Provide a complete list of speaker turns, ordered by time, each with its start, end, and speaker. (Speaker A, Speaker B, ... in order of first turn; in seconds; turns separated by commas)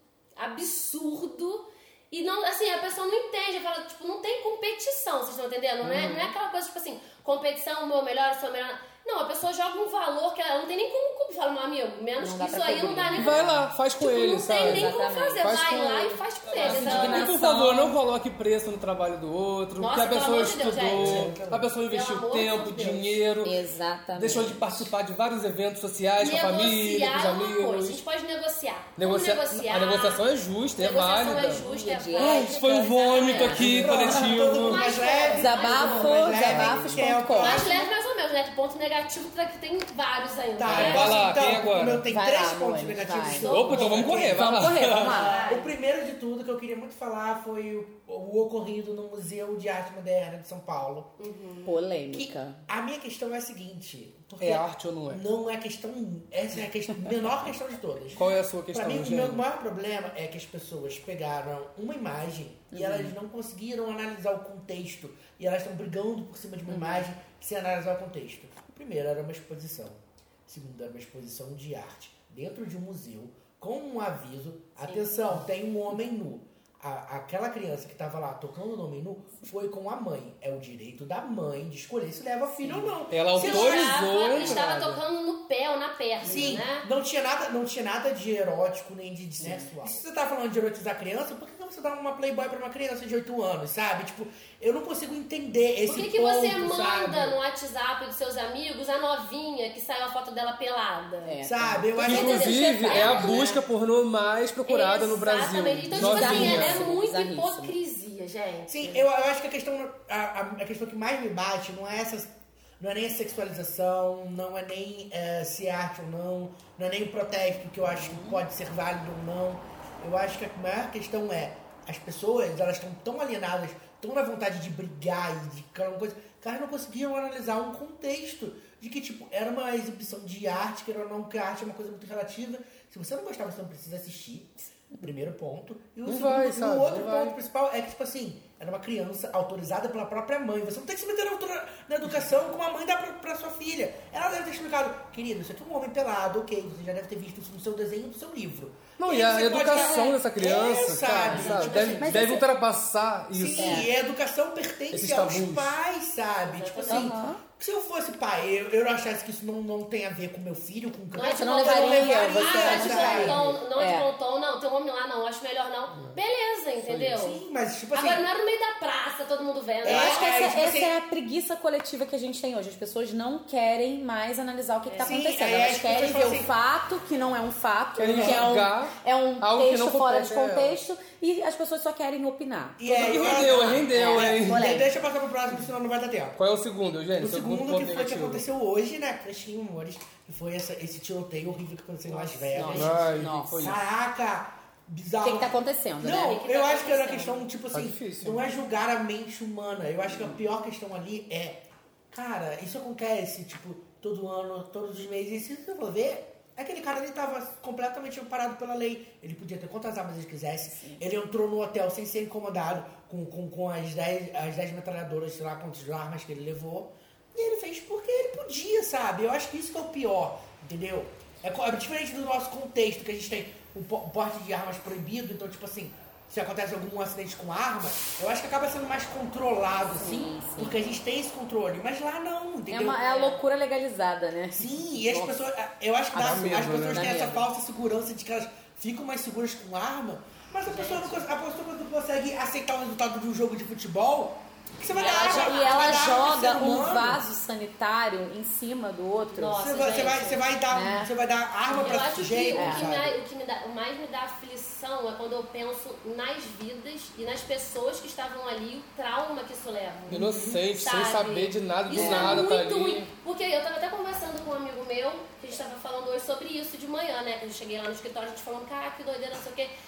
Speaker A: 0.4-17.3, Speaker B: 5.8-6.3, Speaker C: 12.2-13.7, Speaker B: 13.2-23.6, Speaker C: 14.5-15.6, Speaker C: 16.6-18.0, Speaker A: 19.8-21.3, Speaker D: 20.9-21.7, Speaker A: 21.9-23.2, Speaker C: 23.4-24.9, Speaker B: 24.1-28.0, Speaker A: 26.2-30.2, Speaker B: 29.0-34.9, Speaker A: 30.8-33.9, Speaker C: 31.5-34.3, Speaker D: 33.6-37.9, Speaker A: 34.5-36.5, Speaker C: 35.3-37.8, Speaker B: 36.4-37.1, Speaker A: 37.3-41.3, Speaker D: 40.6-51.1, Speaker B: 40.7-42.1, Speaker C: 40.7-41.0, Speaker C: 42.1-45.5, Speaker A: 43.3-44.2, Speaker B: 43.5-45.3, Speaker A: 45.1-45.7, Speaker A: 51.2-51.8, Speaker C: 51.6-52.6, Speaker D: 52.1-84.0, Speaker B: 54.4-55.2, Speaker B: 58.1-59.5, Speaker C: 62.7-63.2, Speaker C: 66.7-67.1, Speaker C: 82.6-82.9, Speaker B: 83.1-85.0, Speaker A: 83.4-86.9, Speaker C: 86.2-86.6, Speaker D: 86.2-97.4, Speaker C: 89.4-89.9, Speaker A: 95.9-101.4, Speaker C: 101.2-102.1, Speaker D: 101.4-103.0, Speaker B: 102.0-106.9, Speaker A: 102.0-103.6, Speaker C: 102.7-103.2, Speaker A: 104.7-109.0, Speaker C: 105.9-107.8, Speaker D: 108.7-152.3, Speaker C: 117.8-118.4, Speaker B: 136.1-137.4, Speaker B: 149.0-153.9, Speaker C: 149.7-150.2, Speaker C: 151.2-152.4, Speaker A: 151.3-152.3, Speaker D: 153.3-163.4, Speaker C: 153.6-153.9, Speaker B: 154.9-155.8, Speaker A: 156.5-157.1, Speaker C: 156.9-157.4, Speaker A: 161.1-167.4, Speaker C: 161.2-164.1, Speaker B: 166.8-167.2, Speaker D: 167.2-168.3, Speaker A: 167.9-170.3, Speaker D: 169.8-170.9, Speaker C: 169.8-184.9, Speaker A: 174.9-175.2, Speaker D: 175.0-176.5, Speaker B: 178.0-180.8, Speaker D: 178.2-178.4, Speaker D: 182.8-186.4, Speaker B: 182.8-184.7, Speaker B: 186.4-188.4, Speaker D: 187.2-233.0, Speaker B: 192.1-193.8, Speaker C: 192.5-193.8, Speaker C: 195.2-196.5, Speaker A: 196.2-197.5, Speaker B: 197.7-198.4, Speaker C: 200.1-200.4, Speaker C: 210.7-211.0, Speaker C: 229.8-231.0, Speaker C: 232.7-235.4, Speaker A: 233.0-233.4, Speaker D: 234.6-247.2, Speaker B: 236.1-237.1, Speaker C: 236.8-237.5, Speaker A: 240.7-241.3, Speaker A: 244.9-246.2, Speaker C: 245.0-249.6, Speaker A: 249.3-250.4, Speaker D: 249.6-253.2, Speaker C: 250.7-251.1, Speaker A: 251.7-269.7, Speaker C: 252.5-252.9, Speaker B: 260.1-263.1, Speaker C: 260.1-260.6, Speaker C: 261.9-262.5